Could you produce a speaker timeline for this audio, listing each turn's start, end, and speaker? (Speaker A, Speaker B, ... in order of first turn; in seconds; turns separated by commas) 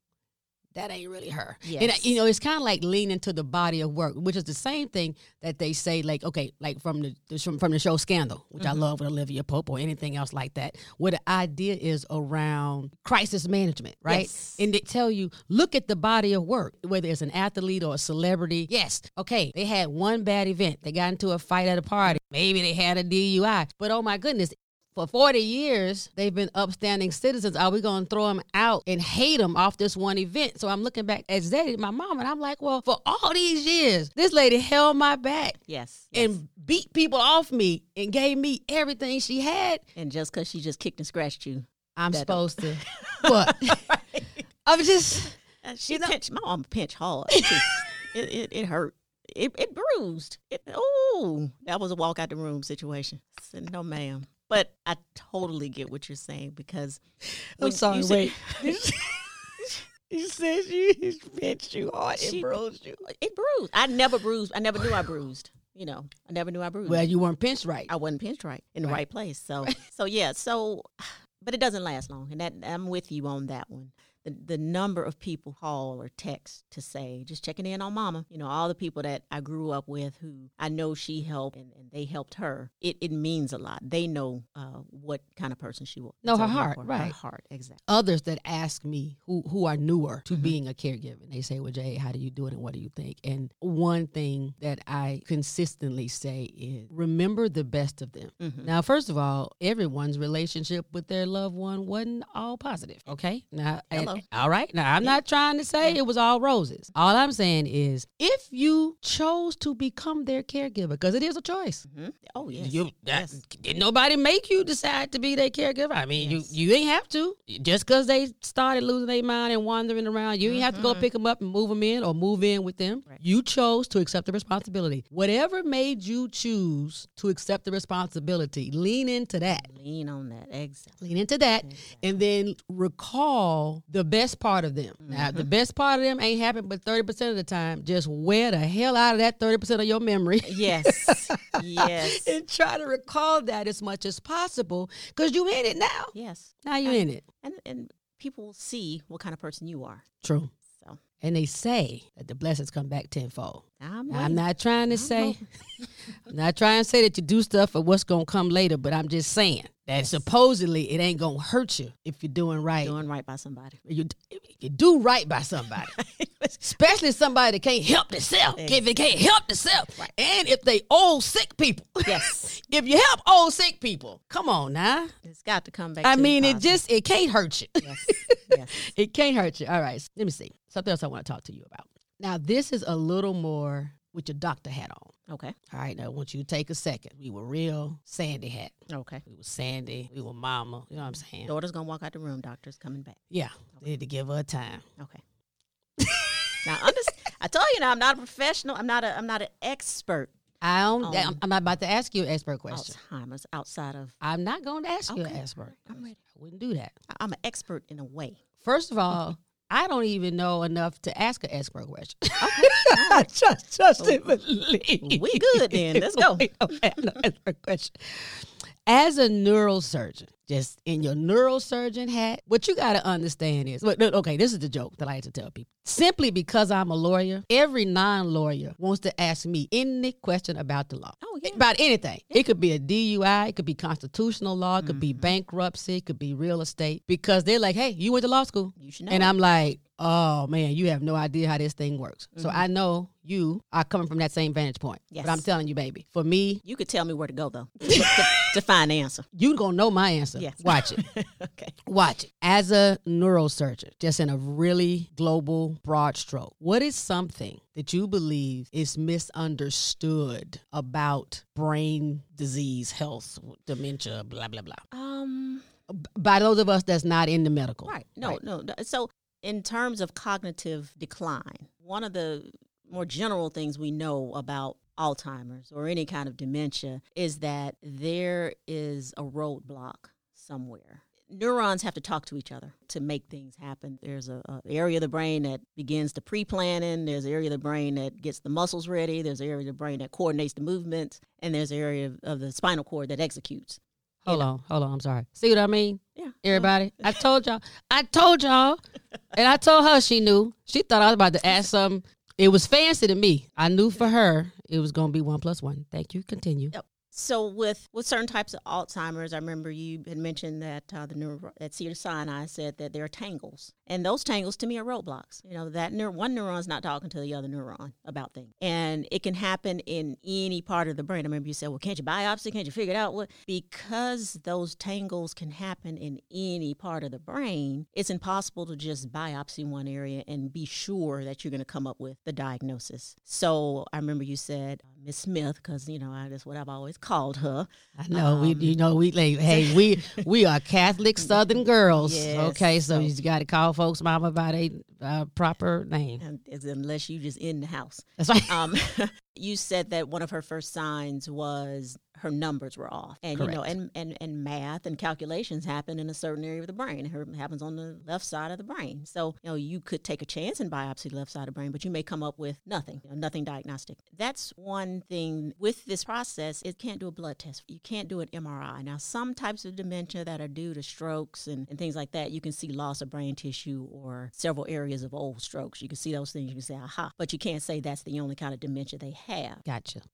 Speaker A: 0.7-35.6, Speaker B: 1.6-2.2, Speaker B: 8.6-8.8, Speaker B: 14.1-14.7, Speaker B: 35.7-36.4, Speaker A: 36.1-39.8, Speaker B: 40.0-44.4, Speaker A: 42.0-43.9, Speaker A: 44.7-45.4, Speaker B: 45.6-57.0, Speaker A: 45.9-46.1, Speaker A: 57.3-63.0, Speaker B: 57.6-58.8, Speaker B: 62.2-67.1, Speaker A: 64.8-65.1, Speaker A: 66.9-67.9, Speaker B: 67.9-87.8, Speaker A: 86.2-87.2, Speaker A: 87.9-111.8, Speaker B: 90.3-90.6, Speaker B: 98.4-98.7, Speaker B: 103.9-104.2, Speaker B: 111.9-113.4, Speaker A: 112.5-129.7, Speaker B: 116.2-116.5, Speaker B: 120.4-121.1, Speaker B: 129.5-131.0, Speaker A: 131.0-146.1, Speaker B: 131.6-132.2, Speaker B: 135.0-135.5, Speaker B: 140.4-142.3, Speaker B: 146.1-150.0, Speaker A: 146.6-147.2, Speaker A: 150.2-150.5, Speaker B: 150.7-151.0, Speaker A: 151.2-155.4, Speaker B: 153.8-155.9, Speaker A: 156.3-163.0, Speaker B: 160.0-160.2, Speaker B: 162.8-163.8, Speaker A: 163.9-165.9, Speaker B: 165.7-166.6, Speaker A: 166.6-175.1, Speaker B: 168.6-168.9, Speaker B: 172.1-172.6, Speaker B: 175.2-176.8, Speaker A: 176.0-185.1, Speaker B: 177.8-178.9, Speaker B: 185.3-185.6, Speaker A: 185.7-188.7, Speaker B: 188.9-189.2, Speaker A: 189.3-191.5, Speaker B: 191.4-193.2, Speaker A: 193.3-194.8, Speaker B: 195.0-195.2, Speaker A: 196.0-196.6, Speaker B: 196.6-200.3, Speaker A: 200.6-203.0, Speaker B: 201.0-201.4, Speaker B: 202.7-204.2, Speaker A: 204.2-206.9, Speaker B: 205.1-206.2, Speaker B: 207.1-208.4, Speaker A: 208.6-246.6, Speaker B: 212.4-213.3, Speaker B: 214.0-214.3, Speaker B: 215.0-217.2, Speaker B: 231.2-231.7, Speaker B: 234.8-235.3, Speaker B: 238.8-239.3, Speaker B: 242.3-242.7, Speaker B: 245.1-245.4, Speaker B: 246.6-249.3, Speaker A: 247.9-248.2, Speaker A: 249.3-251.0, Speaker B: 250.4-251.8, Speaker A: 251.9-264.8, Speaker B: 264.9-265.7, Speaker A: 265.9-268.4, Speaker B: 267.9-294.5, Speaker A: 294.2-298.8, Speaker B: 296.2-297.2, Speaker A: 299.3-306.7, Speaker B: 306.7-338.8, Speaker A: 338.0-346.2, Speaker B: 339.5-340.3, Speaker B: 341.2-343.1, Speaker B: 346.2-379.6, Speaker A: 348.2-348.6, Speaker A: 353.4-353.8, Speaker A: 379.6-380.0